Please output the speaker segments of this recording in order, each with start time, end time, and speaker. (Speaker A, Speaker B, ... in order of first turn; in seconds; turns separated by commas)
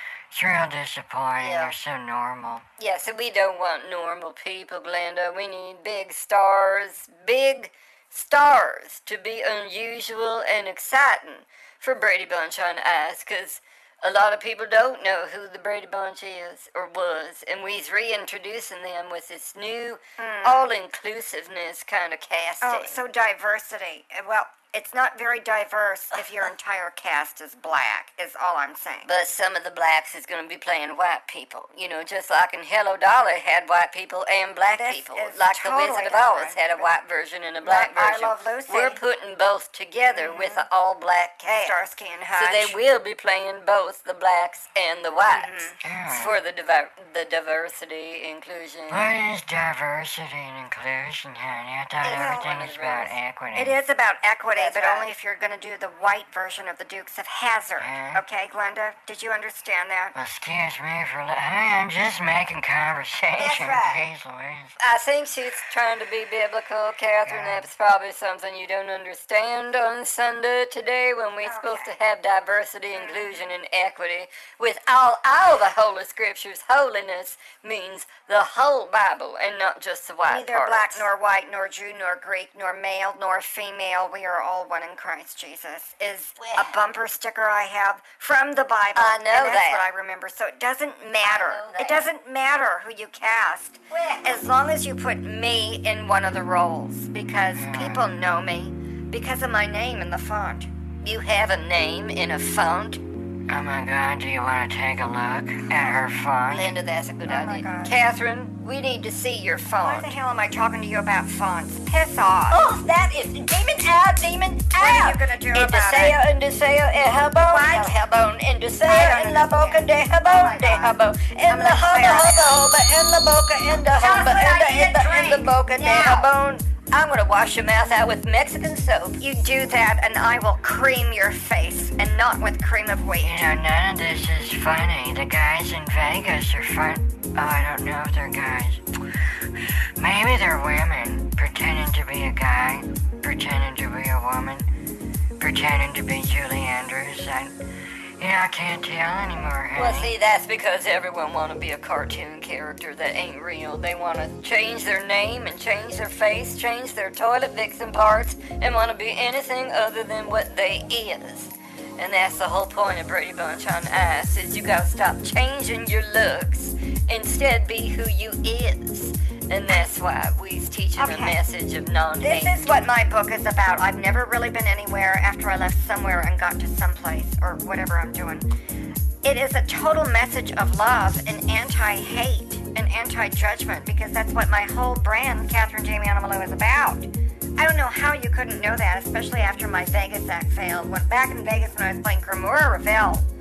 Speaker A: 0.3-2.7, Speaker B: 1.4-1.8, Speaker B: 2.8-23.0, Speaker C: 20.2-20.7, Speaker C: 22.6-29.1, Speaker B: 29.1-41.8, Speaker C: 34.7-36.9, Speaker C: 37.6-39.0, Speaker C: 40.1-40.6, Speaker C: 41.5-42.8, Speaker B: 42.4-49.1, Speaker C: 45.3-45.8, Speaker A: 45.8-46.4, Speaker A: 48.9-53.8, Speaker B: 52.0-53.1, Speaker C: 52.0-52.5, Speaker C: 53.5-60.2, Speaker B: 54.5-55.1, Speaker A: 57.8-58.2, Speaker A: 60.1-64.8, Speaker B: 63.4-64.0, Speaker B: 64.8-81.1, Speaker A: 67.2-67.7, Speaker C: 71.4-72.0, Speaker C: 73.0-73.3, Speaker C: 80.3-100.7, Speaker B: 86.4-86.8, Speaker B: 89.0-89.9, Speaker B: 91.2-92.1, Speaker B: 93.9-94.5, Speaker A: 97.5-98.1, Speaker B: 101.0-103.0, Speaker A: 103.5-106.7, Speaker B: 106.5-110.2, Speaker C: 107.3-108.0, Speaker C: 109.8-112.7, Speaker B: 112.5-129.2, Speaker C: 114.7-116.2, Speaker C: 117.4-118.0, Speaker C: 118.8-121.0, Speaker C: 121.5-122.6, Speaker C: 123.9-126.3, Speaker C: 129.2-133.4, Speaker A: 133.2-144.7, Speaker A: 145.4-147.6, Speaker A: 148.2-150.1, Speaker B: 149.8-172.6, Speaker C: 171.0-171.4, Speaker C: 172.2-178.5, Speaker C: 179.2-193.3